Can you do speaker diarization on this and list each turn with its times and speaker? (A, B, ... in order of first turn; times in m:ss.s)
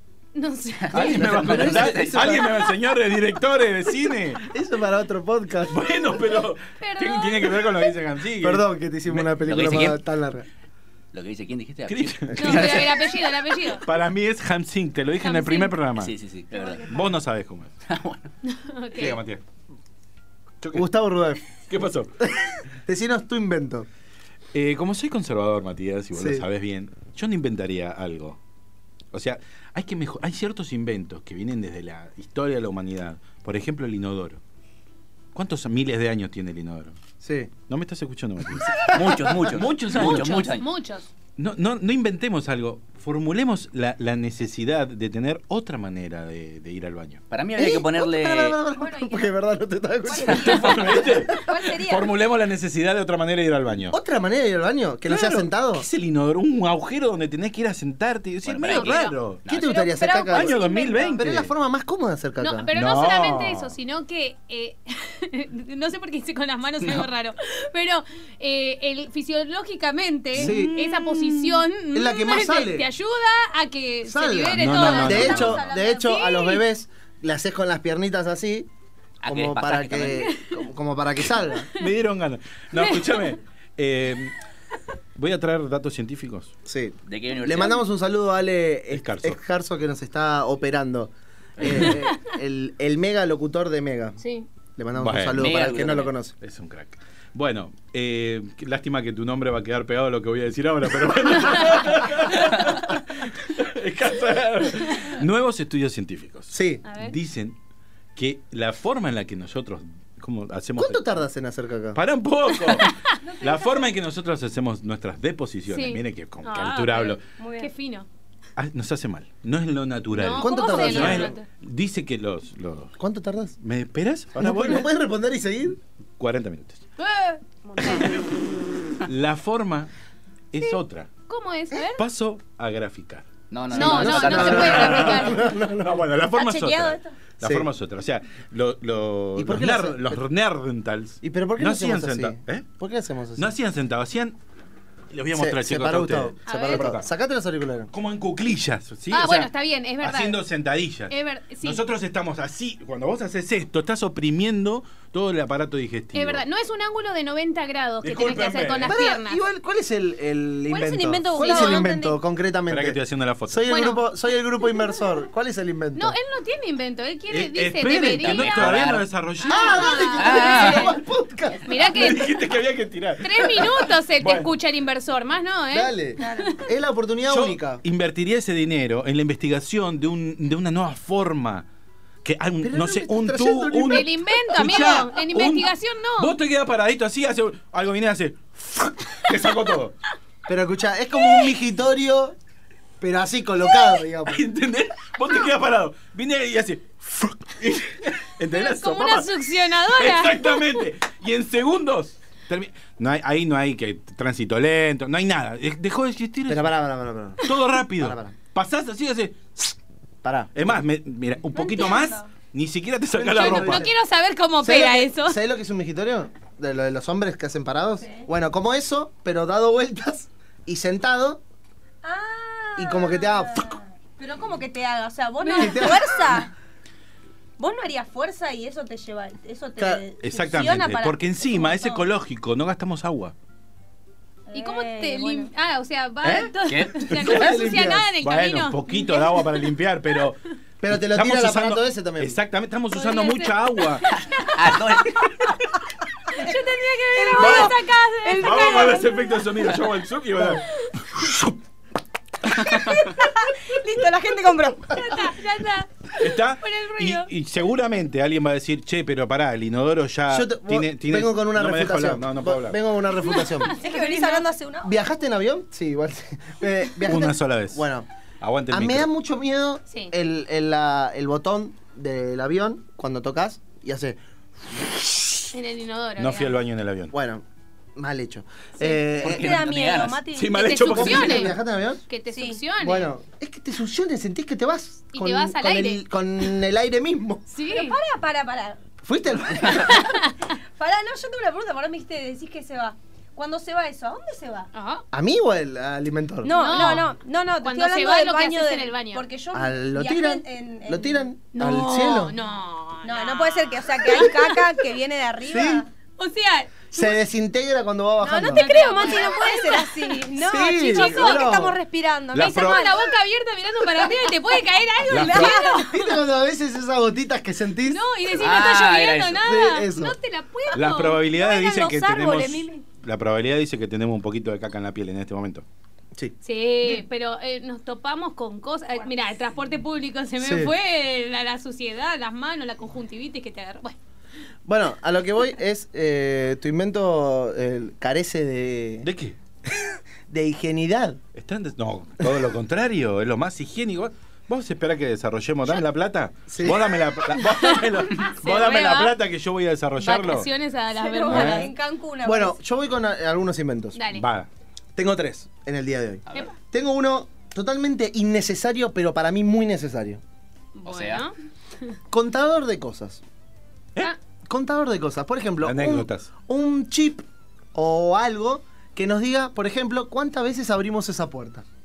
0:00.3-0:01.2 A
0:00.9-0:02.6 B
0:00.9-0:04.5 C
0:01.1-0:02.5 D
0:04.5-0:05.8 D
0:05.7-0:08.6 C
0:06.7-0:07.8 A
0:08.4-0:10.5 D
0:09.2-0:10.0 B
0:09.6-0:09.9 C
0:11.1-0:13.2 B
0:11.9-0:12.8 C
0:12.4-0:13.8 A
0:13.8-0:16.1 C
0:15.2-0:15.8 A
0:16.0-0:17.1 B
0:16.8-0:17.7 C
0:17.8-0:18.3 B
0:18.4-0:19.2 A
0:19.0-0:19.4 C
0:20.6-0:20.8 C
0:20.7-0:21.4 D
0:21.7-0:22.1 C
0:22.8-0:23.9 D
0:24.5-0:28.4 C
0:26.1-0:26.5 D
0:29.1-0:34.4 C
0:35.3-0:37.0 C
0:37.2-0:37.5 D
0:37.6-0:40.5 C
0:38.7-0:40.6 B
0:38.7-0:39.3 D
0:40.0-0:41.1 A
0:41.4-0:47.2 C
0:47.3-0:48.6 B
0:47.6-0:50.8 D
0:48.7-0:49.4 E
0:50.0-0:52.2 E
0:50.3-0:53.9 C
0:53.9-0:55.8 D
0:55.1-0:59.4 C
0:58.4-0:59.7 B
0:58.6-1:01.3 A
0:59.5-1:00.6 D
1:00.3-1:01.5 C
1:01.2-1:02.7 D
1:02.4-1:16.6 A
1:02.7-1:03.7 C
1:06.8-1:07.0 B
1:10.3-1:11.6 C
1:10.4-1:10.8 D
1:11.9-1:12.9 D
1:14.0-1:18.7 D
1:14.5-1:15.6 C
1:14.7-1:16.0 E
1:19.2-1:20.2 B
1:19.2-1:21.7 D
1:20.2-1:20.6 A
1:21.8-1:24.3 C
1:22.7-1:23.4 A
1:25.2-1:26.5 C
1:26.6-1:34.2 D
1:27.1-1:27.8 B
1:28.9-1:29.4 C
1:31.6-1:32.0 C
1:34.2-1:34.5 A
1:34.8-1:36.3 D
1:35.0-1:35.5 C
1:35.4-1:36.1 B
1:36.4-1:47.6 C
1:46.5-1:46.8 D
1:46.8-1:47.2 A
1:48.2-1:51.0 C
1:50.8-1:52.0 D
1:51.9-1:57.2 C
1:52.7-1:53.2 A
1:53.2-1:53.9 E
1:55.7-1:58.1 A
1:57.4-1:57.7 E
1:58.6-2:02.9 C
2:00.1-2:01.5 A
2:00.4-2:01.3 D
2:03.0-2:03.6 D
2:03.6-2:04.9 C
2:04.4-2:05.8 D
2:06.2-2:06.8 C
2:07.0-2:08.2 A
2:07.6-2:08.5 E
2:09.0-2:09.9 C
2:10.5-2:11.1 C
2:10.6-2:12.0 A
2:12.0-2:13.3 C
2:13.5-2:15.2 B
2:13.7-2:15.5 A
2:13.7-2:16.1 D
2:14.0-2:22.7 C
2:16.3-2:17.2 E
2:17.4-2:17.7 D
2:19.4-2:20.2 D
2:21.2-2:23.5 D
2:23.4-2:24.4 C
2:25.1-2:27.0 C
2:25.3-2:27.9 D
2:26.4-2:27.0 A
2:27.9-2:29.5 C
2:29.1-2:30.4 A
2:30.0-2:36.4 C
2:31.1-2:31.8 A
2:36.1-2:39.4 A
2:38.0-2:38.9 C
2:38.8-2:46.2 D
2:40.7-2:42.2 E
2:41.4-2:41.9 A
2:42.7-2:43.8 C
2:43.6-2:44.0 A
2:45.9-2:48.8 A
2:47.3-2:50.2 C
2:48.2-2:49.1 B
2:49.4-2:51.0 A
2:49.4-2:52.0 D
2:50.2-2:50.9 B
2:51.6-2:52.4 A
2:51.9-2:54.5 C
2:53.2-2:56.6 A
2:55.7-2:57.8 D
2:56.2-2:56.5 E
2:57.3-3:01.6 C
3:02.2-3:09.9 C
3:02.6-3:04.1 D
3:03.9-3:06.4 A
3:10.5-3:12.4 D
3:13.0-3:14.4 D
3:14.3-3:19.3 C
3:18.4-3:20.9 A
3:19.8-3:26.7 C
3:26.5-3:27.4 D
3:27.4-3:29.8 C
3:28.0-3:28.4 D
3:30.2-3:30.8 D
3:30.5-3:33.9 C
3:31.4-3:32.3 E
3:33.1-3:33.9 D
3:33.3-3:35.4 A
3:34.6-3:41.4 D
3:42.0-3:46.5 E
3:42.8-3:43.7 D
3:45.4-3:46.0 A
3:45.6-3:46.5 D
3:47.6-3:52.1 E
3:49.8-3:50.0 D
3:50.2-3:53.3 C
3:54.5-3:55.5 E
3:54.5-3:59.6 A
3:56.2-3:56.5 C
3:56.7-3:57.0 B
3:57.1-3:57.3 C
3:57.2-3:58.1 D
3:58.2-4:00.4 C
4:00.8-4:02.4 D
4:00.9-4:04.0 C
4:02.9-4:04.6 A
4:04.5-4:05.3 B
4:05.2-4:05.5 A
4:06.3-4:09.4 A
4:07.1-4:09.5 E
4:07.4-4:07.7 C
4:08.4-4:11.5 C
4:12.5-4:15.3 E
4:14.9-4:17.3 A
4:16.2-4:22.8 C
4:20.3-4:23.7 D
4:23.1-4:24.5 A
4:23.8-4:24.9 E
4:24.8-4:28.1 D
4:27.0-4:27.8 C
4:28.4-4:29.1 C
4:28.7-4:34.2 D
4:29.9-4:30.1 A
4:34.7-4:35.4 D
4:35.5-4:36.6 A
4:36.2-4:37.1 C
4:37.1-4:37.4 D
4:38.0-4:39.5 D
4:38.8-4:41.2 E
4:39.2-4:40.2 B
4:40.3-4:41.5 C
4:40.5-4:41.5 A
4:40.8-4:42.0 D
4:42.1-4:43.1 A
4:42.3-4:42.6 E
4:42.8-4:47.5 D
4:45.1-4:46.0 A
4:47.5-4:48.0 A
4:47.7-4:48.8 E
4:49.0-4:50.1 D
4:49.6-4:50.0 E
4:49.9-4:50.3 A
4:50.7-4:54.7 E
4:54.7-4:55.0 A
4:55.1-4:57.0 D
4:56.4-5:01.3 E
4:56.5-4:57.1 A
4:57.6-4:59.2 A
4:59.5-5:02.4 D
5:01.5-5:04.7 A
5:03.0-5:05.9 E
5:05.5-5:05.8 D
5:06.2-5:07.2 A
5:06.9-5:09.1 D
5:08.2-5:13.1 E
5:08.5-5:10.1 A
5:10.4-5:11.8 D
5:10.9-5:11.5 A
5:12.3-5:13.0 C
5:12.4-5:16.0 A
5:14.0-5:14.3 E
5:15.1-5:15.6 C
5:15.1-5:15.8 E
5:15.7-5:18.0 D
5:17.8-5:21.2 A
5:18.4-5:19.4 B
5:19.4-5:20.2 D
5:20.7-5:25.6 C
5:20.7-5:22.8 E
5:26.4-5:34.0 A
5:30.4-5:30.7 D
5:34.6-5:39.1 D
5:39.0-5:39.4 C
5:40.3-5:41.2 D
5:41.3-5:50.5 C
5:46.5-5:46.8 D
5:47.3-5:49.2 A
5:50.0-5:51.7 A
5:51.0-5:52.6 E
5:51.3-5:51.7 C
5:52.2-5:54.0 D
5:53.9-5:54.2 A
5:54.1-5:54.5 C
5:55.0-6:00.2 D
6:00.7-6:01.3 A
6:00.8-6:01.2 B
6:02.1-6:03.2 D
6:04.4-6:11.6 D
6:05.6-6:06.3 C